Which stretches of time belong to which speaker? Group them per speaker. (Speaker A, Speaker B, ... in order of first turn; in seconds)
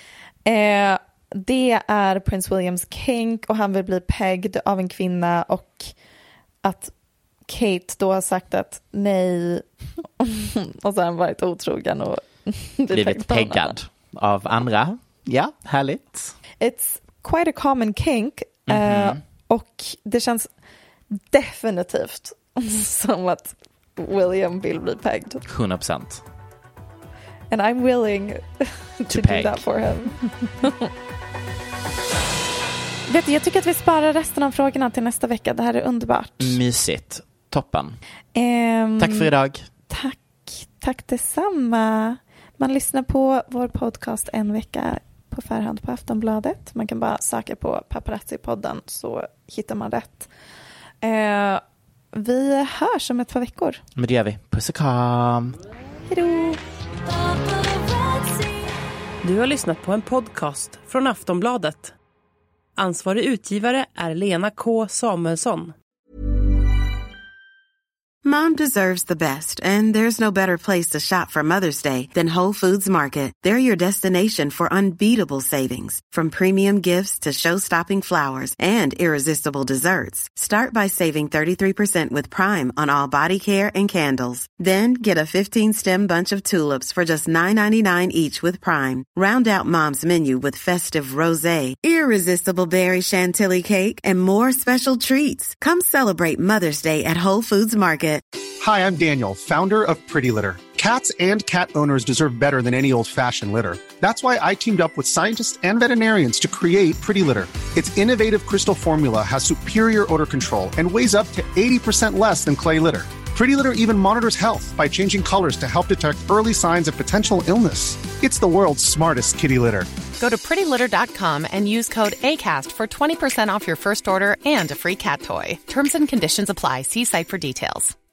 Speaker A: 0.4-5.9, 6.6-6.9, 7.5-9.7, 10.2-13.8, 16.6-20.5, 21.1-25.4, 27.5-30.9, 33.1-36.6, 38.3-39.3, 39.9-50.3, 51.0-51.6, 52.1-53.8, 56.1-56.6
Speaker B: 12.9-16.4, 18.7-19.2, 25.4-26.2, 29.1-29.6, 36.4-38.0, 39.0-39.7, 54.0-55.6
Speaker C: 59.2-61.9, 62.8-65.7
Speaker D: 68.2-98.2
Speaker E: 98.6-119.9
Speaker F: 120.2-127.9